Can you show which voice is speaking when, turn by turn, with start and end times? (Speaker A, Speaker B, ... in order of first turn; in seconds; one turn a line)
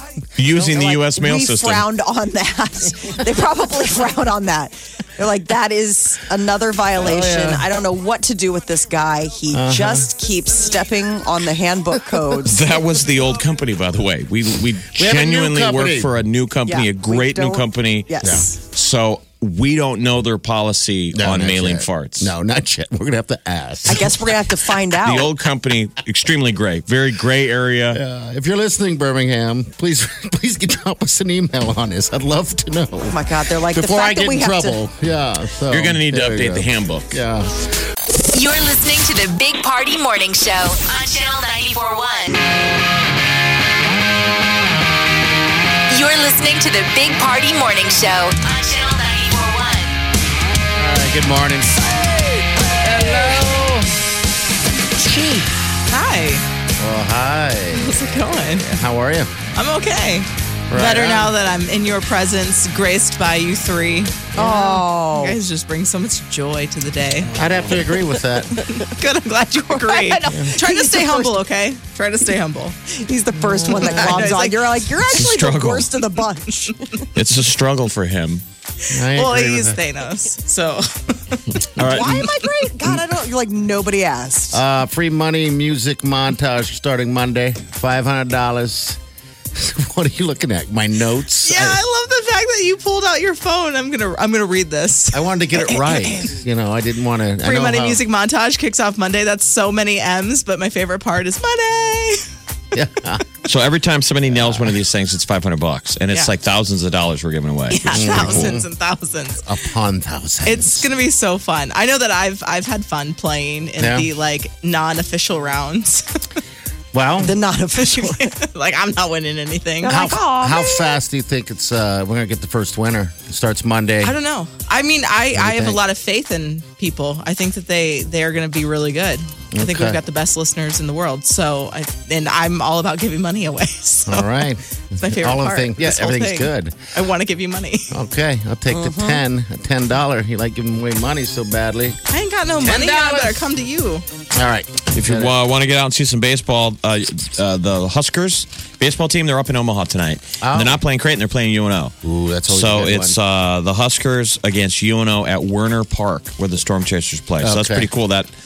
Speaker A: 0.4-1.9
Speaker B: 0.5-12.6
Speaker C: 7.0-7.6
Speaker C: 9.5-10.1
Speaker A: 12.4-22.3
Speaker C: 14.9-16.1
Speaker B: 16.6-18.6
Speaker C: 18.2-18.5
Speaker C: 21.1-24.1
Speaker B: 23.9-25.3
Speaker A: 24.9-28.0
Speaker C: 27.9-37.5
Speaker B: 33.1-34.8
Speaker A: 35.7-37.2
Speaker D: 38.3-42.4
Speaker D: 45.9-49.9
Speaker C: 50.8-52.0
Speaker C: 52.8-53.9
Speaker C: 55.0-55.4
Speaker E: 55.9-56.4
Speaker C: 56.8-59.3
Speaker E: 57.7-58.8
Speaker E: 59.5-67.3
Speaker C: 60.7-61.3
Speaker B: 64.3-65.4
Speaker C: 67.3-68.6
Speaker E: 68.8-72.8
Speaker B: 69.7-71.4
Speaker C: 70.3-70.5
Speaker B: 72.9-76.9
Speaker C: 73.3-74.3
Speaker E: 73.7-75.1
Speaker A: 75.1-76.0
Speaker A: 77.1-78.4
Speaker C: 78.9-79.8
Speaker E: 79.1-81.6
Speaker A: 81.8-82.2
Speaker B: 81.9-84.6
Speaker C: 84.5-89.0
Speaker C: 89.5-91.8
Speaker E: 91.4-96.1
Speaker C: 95.1-98.0
Speaker E: 97.4-102.2
Speaker C: 102.7-103.4
Speaker A: 103.5-108.6
Speaker C: 104.3-104.8
Speaker E: 107.7-109.4
Speaker C: 107.8-108.7
Speaker C: 109.4-110.9
Speaker E: 110.4-116.4
Speaker C: 113.8-114.1
Speaker C: 116.9-117.3
Speaker B: 117.2-118.3
Speaker E: 117.7-119.9
Speaker B: 119.8-121.0
Speaker C: 119.9-124.2
Speaker E: 124.0-134.4
Speaker C: 125.3-125.8
Speaker C: 129.5-130.0
Speaker C: 134.1-136.8
Speaker E: 135.0-137.9
Speaker C: 137.9-142.0
Speaker B: 138.7-139.2
Speaker E: 142.1-144.0
Speaker C: 142.6-143.4
Speaker C: 144.3-145.3
Speaker A: 144.9-151.9
Speaker C: 150.4-150.8
Speaker C: 152.0-153.2
Speaker A: 152.5-158.3
Speaker C: 157.4-157.9